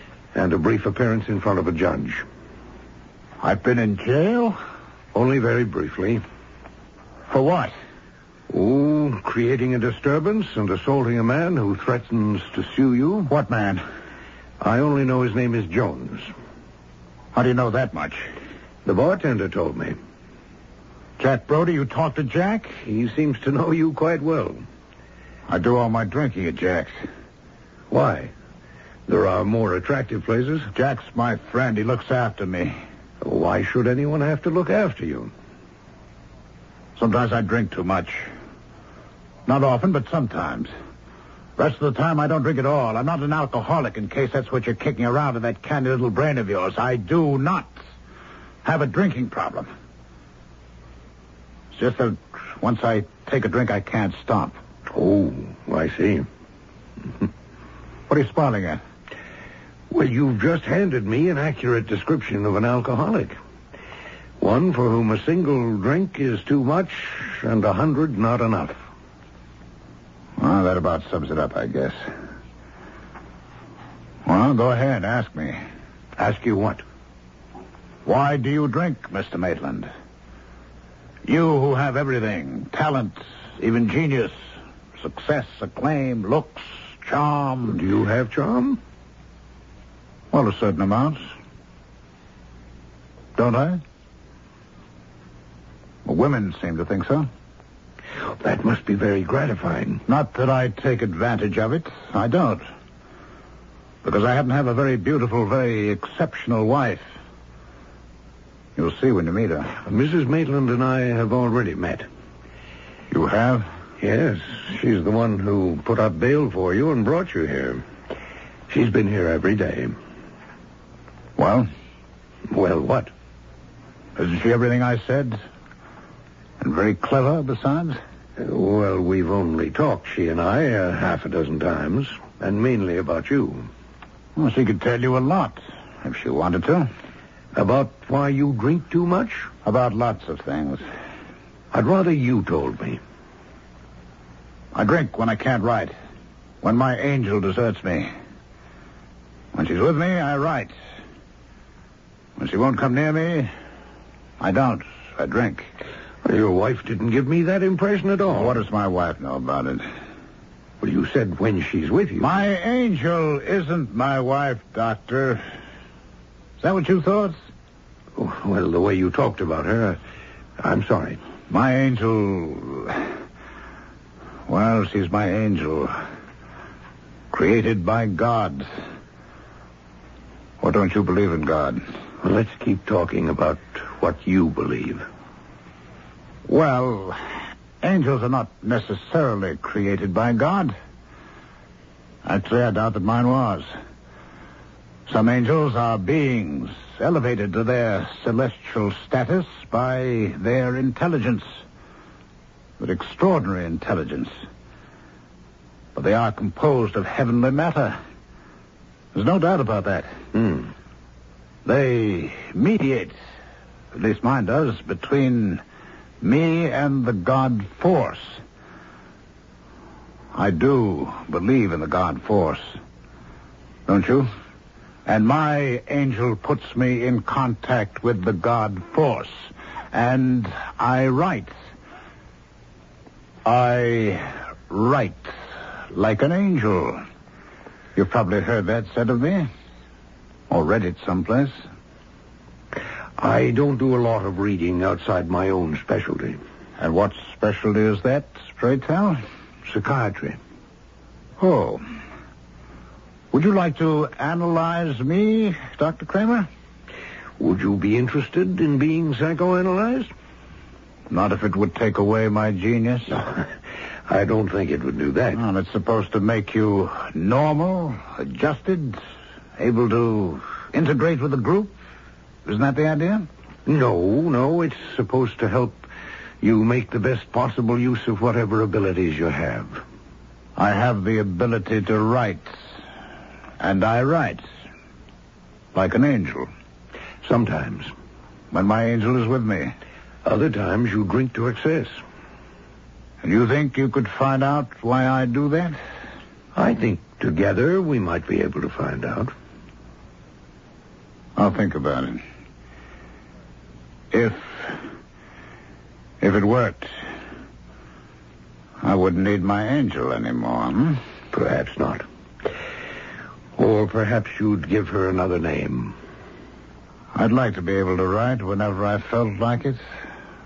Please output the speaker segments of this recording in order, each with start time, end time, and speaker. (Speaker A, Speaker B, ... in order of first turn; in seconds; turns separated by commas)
Speaker A: 0.3-2.2, Speaker B: 3.4-4.5, Speaker A: 5.1-6.2, Speaker B: 7.3-7.7, Speaker A: 8.5-13.3, Speaker B: 13.3-13.8, Speaker A: 14.6-16.3, Speaker B: 17.3-18.3, Speaker A: 18.8-20.0, Speaker B: 21.2-22.8, Speaker A: 22.8-24.6, Speaker B: 25.5-26.9, Speaker A: 27.9-28.3, Speaker A: 29.1-30.7, Speaker B: 30.7-32.8, Speaker A: 33.2-35.3, Speaker B: 37.0-38.3, Speaker B: 39.5-40.7, Speaker B: 41.6-47.8, Speaker B: 48.6-49.7, Speaker B: 51.7-54.6, Speaker A: 54.9-56.3, Speaker B: 58.1-58.8, Speaker A: 59.9-63.3, Speaker A: 64.4-68.8, Speaker B: 70.4-72.0, Speaker B: 74.2-75.6, Speaker A: 76.2-76.8, Speaker B: 78.0-79.9, Speaker B: 81.2-84.4, Speaker B: 85.0-87.8, Speaker A: 87.7-88.8, Speaker B: 90.3-91.2, Speaker B: 93.3-93.8, Speaker B: 96.0-97.3, Speaker A: 98.4-100.0, Speaker B: 100.1-102.6, Speaker B: 104.0-107.1, Speaker B: 108.8-109.8, Speaker A: 109.8-112.1, Speaker B: 113.1-113.7, Speaker A: 114.0-117.8, Speaker A: 118.7-120.0, Speaker B: 121.4-121.7, Speaker A: 122.5-123.1, Speaker B: 124.2-125.4, Speaker B: 126.6-128.0, Speaker A: 128.4-133.7, Speaker B: 134.3-136.9, Speaker A: 137.5-139.5, Speaker B: 139.6-140.8, Speaker A: 141.7-143.0, Speaker B: 144.7-145.9, Speaker B: 146.6-148.1, Speaker B: 149.5-150.7, Speaker B: 152.4-153.5, Speaker B: 154.4-155.7, Speaker A: 156.2-158.6, Speaker B: 158.3-159.8, Speaker A: 160.8-162.3, Speaker B: 162.2-165.4, Speaker B: 166.6-167.4, Speaker A: 168.2-170.0, Speaker A: 170.6-171.2, Speaker B: 171.5-173.1, Speaker B: 174.5-176.0, Speaker B: 177.3-178.7, Speaker B: 180.6-181.8, Speaker A: 182.2-185.1, Speaker B: 186.5-190.7, Speaker B: 192.2-193.7, Speaker B: 195.1-201.6, Speaker B: 202.8-204.4, Speaker B: 205.9-208.0, Speaker B: 209.1-210.2, Speaker A: 210.3-210.7, Speaker B: 211.6-213.2, Speaker B: 213.9-215.6, Speaker B: 216.2-218.4, Speaker B: 220.3-222.8, Speaker B: 223.9-224.3, Speaker B: 225.1-231.5, Speaker B: 233.4-235.3, Speaker B: 235.9-237.0, Speaker B: 237.9-239.5, Speaker B: 240.5-241.6, Speaker A: 243.2-246.4, Speaker B: 246.8-249.2, Speaker A: 249.6-250.4, Speaker B: 251.4-251.8, Speaker B: 253.3-256.5, Speaker A: 257.4-260.1, Speaker B: 261.1-263.2, Speaker A: 263.1-263.4, Speaker A: 264.1-265.4, Speaker B: 265.3-269.0, Speaker B: 269.6-271.8, Speaker B: 272.4-273.3, Speaker A: 273.6-275.9, Speaker A: 276.4-279.8, Speaker B: 280.6-282.7, Speaker B: 283.6-284.4, Speaker B: 285.7-286.5, Speaker A: 287.2-287.9, Speaker B: 288.5-289.7, Speaker A: 290.2-292.0, Speaker B: 293.2-295.8, Speaker A: 296.5-299.3, Speaker B: 301.4-302.2, Speaker B: 304.1-304.8, Speaker B: 306.2-306.9, Speaker B: 308.8-311.0, Speaker A: 311.3-312.1, Speaker A: 313.6-315.9, Speaker B: 317.1-319.8